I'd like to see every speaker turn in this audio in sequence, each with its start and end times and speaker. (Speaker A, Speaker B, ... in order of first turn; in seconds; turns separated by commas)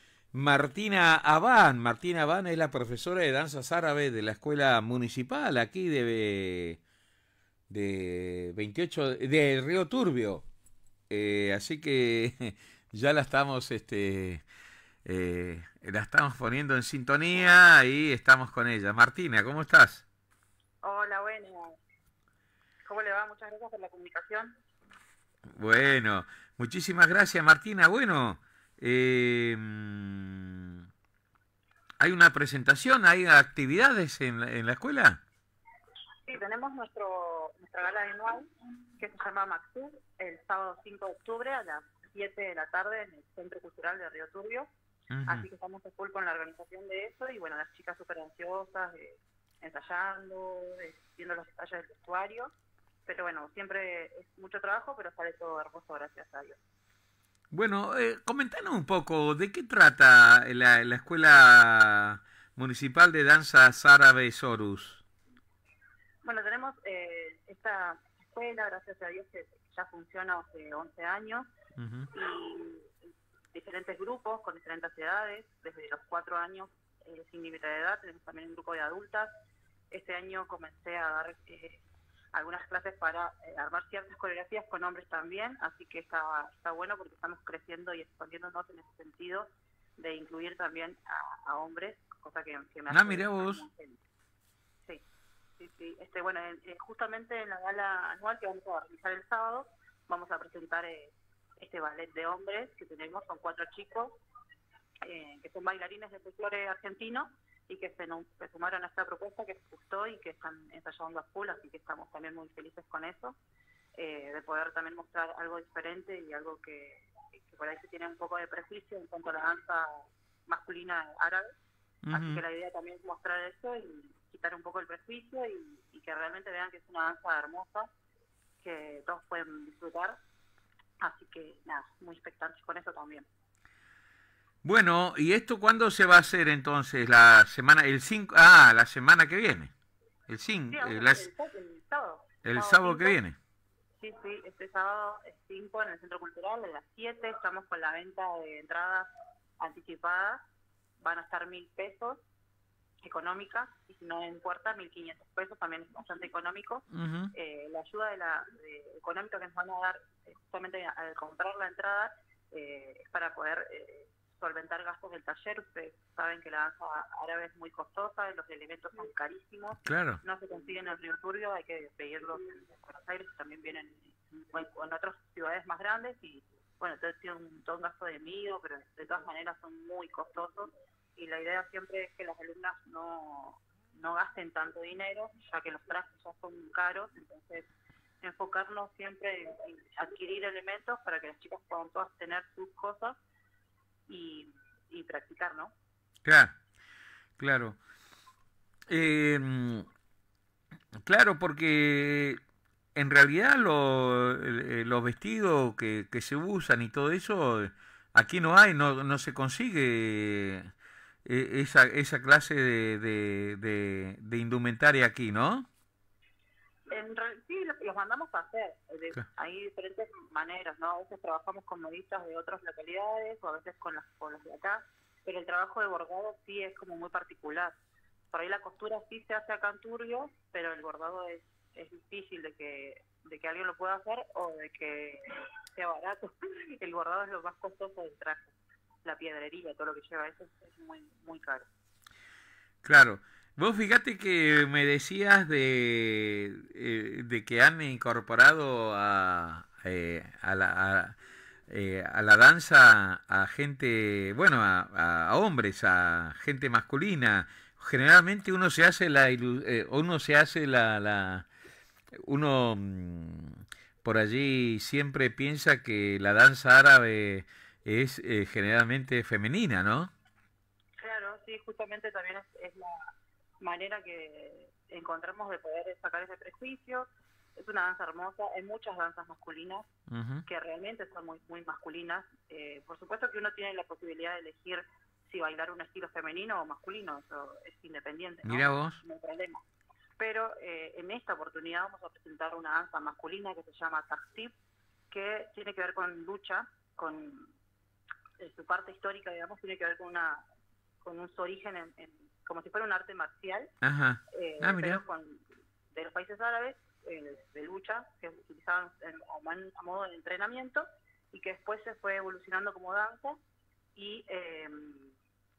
Speaker A: 0.3-6.8, Speaker A: 7.7-10.4, Speaker A: 11.1-14.4, Speaker A: 15.0-20.0, Speaker B: 20.8-21.8, Speaker B: 22.8-24.5, Speaker A: 25.6-30.8, Speaker A: 32.0-35.2, Speaker B: 36.2-44.7, Speaker A: 45.1-45.5, Speaker B: 45.2-52.5, Speaker B: 53.0-56.6, Speaker A: 57.5-65.0, Speaker B: 66.2-71.5, Speaker A: 71.8-72.1, Speaker B: 72.1-72.9, Speaker B: 73.5-79.3, Speaker B: 79.9-81.8, Speaker B: 82.3-94.0, Speaker A: 92.9-93.6, Speaker B: 95.6-104.2, Speaker B: 105.0-113.3, Speaker B: 114.0-121.5, Speaker A: 122.0-122.4, Speaker B: 122.1-127.9, Speaker B: 128.6-130.2, Speaker B: 131.0-133.3, Speaker A: 134.6-139.7, Speaker A: 140.3-141.3, Speaker B: 140.7-143.2, Speaker A: 142.4-143.3, Speaker B: 144.0-149.1, Speaker B: 149.6-150.4, Speaker B: 151.0-152.2, Speaker B: 153.0-187.7, Speaker A: 156.9-157.3, Speaker A: 169.8-170.2, Speaker B: 188.2-193.2, Speaker B: 194.1-195.7, Speaker A: 196.2-196.6, Speaker A: 197.4-197.8, Speaker A: 198.9-199.9, Speaker A: 201.0-202.4, Speaker A: 202.9-210.7, Speaker A: 211.2-215.7, Speaker B: 216.9-227.7, Speaker B: 228.3-241.7, Speaker A: 242.8-251.2, Speaker A: 251.7-261.5, Speaker A: 262.2-270.1, Speaker B: 271.0-279.9, Speaker A: 280.1-280.4, Speaker B: 280.4-289.6, Speaker A: 288.4-289.0, Speaker B: 290.2-294.5, Speaker B: 295.1-297.5, Speaker B: 298.4-300.4, Speaker B: 301.0-303.7, Speaker A: 303.8-305.0, Speaker B: 304.3-313.4, Speaker B: 313.9-315.1